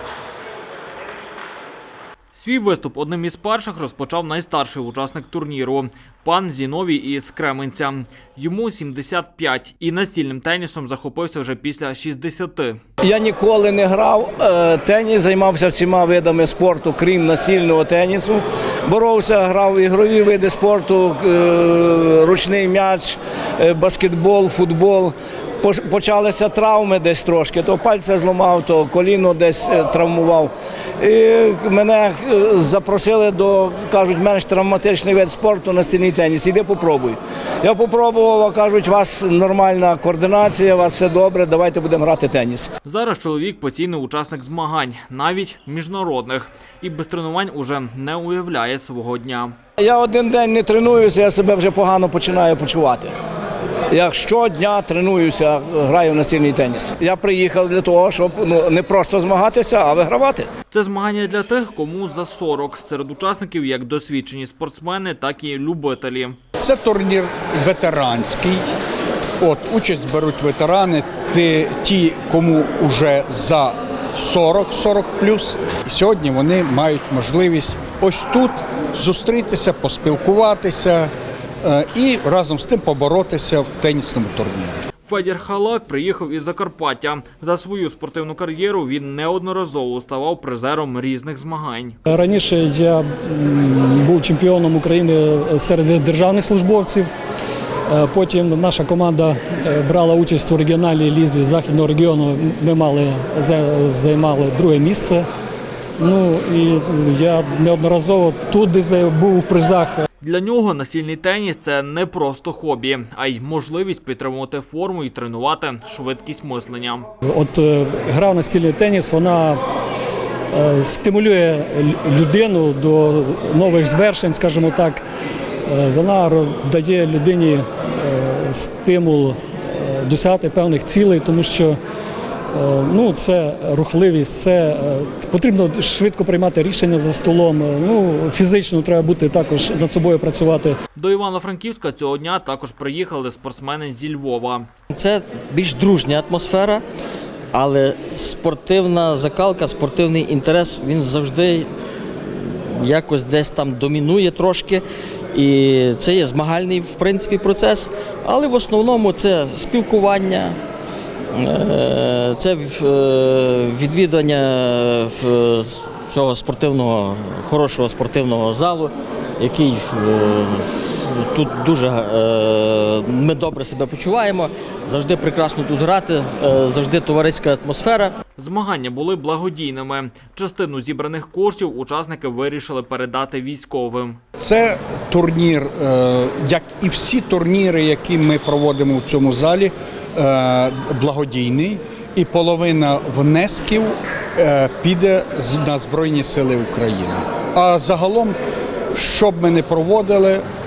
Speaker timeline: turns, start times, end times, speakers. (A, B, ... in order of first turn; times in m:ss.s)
0:02.3-0:12.8 A
0:13.0-0:42.7 B
0:42.8-0:49.5 A
0:49.8-0:53.1 B
0:53.9-1:00.5 B
1:00.7-1:06.4 A
1:06.6-1:08.6 C
1:09.4-1:21.1 C
1:21.6-1:24.8 C
1:25.0-1:32.0 A
1:32.0-1:37.1 D
1:37.9-1:45.2 D
1:46.0-1:50.0 D
1:50.2-1:57.1 A
1:57.2-1:59.6 D
2:00.5-2:05.0 D
2:05.7-2:11.8 D
2:12.5-2:20.8 D
2:20.9-2:24.7 A
2:24.9-2:26.8 E
2:27.5-2:31.7 E
2:32.3-2:40.6 E
2:41.3-2:58.2 E
2:58.4-3:04.2 A
3:04.4-3:18.4 C
3:18.9-3:20.4 C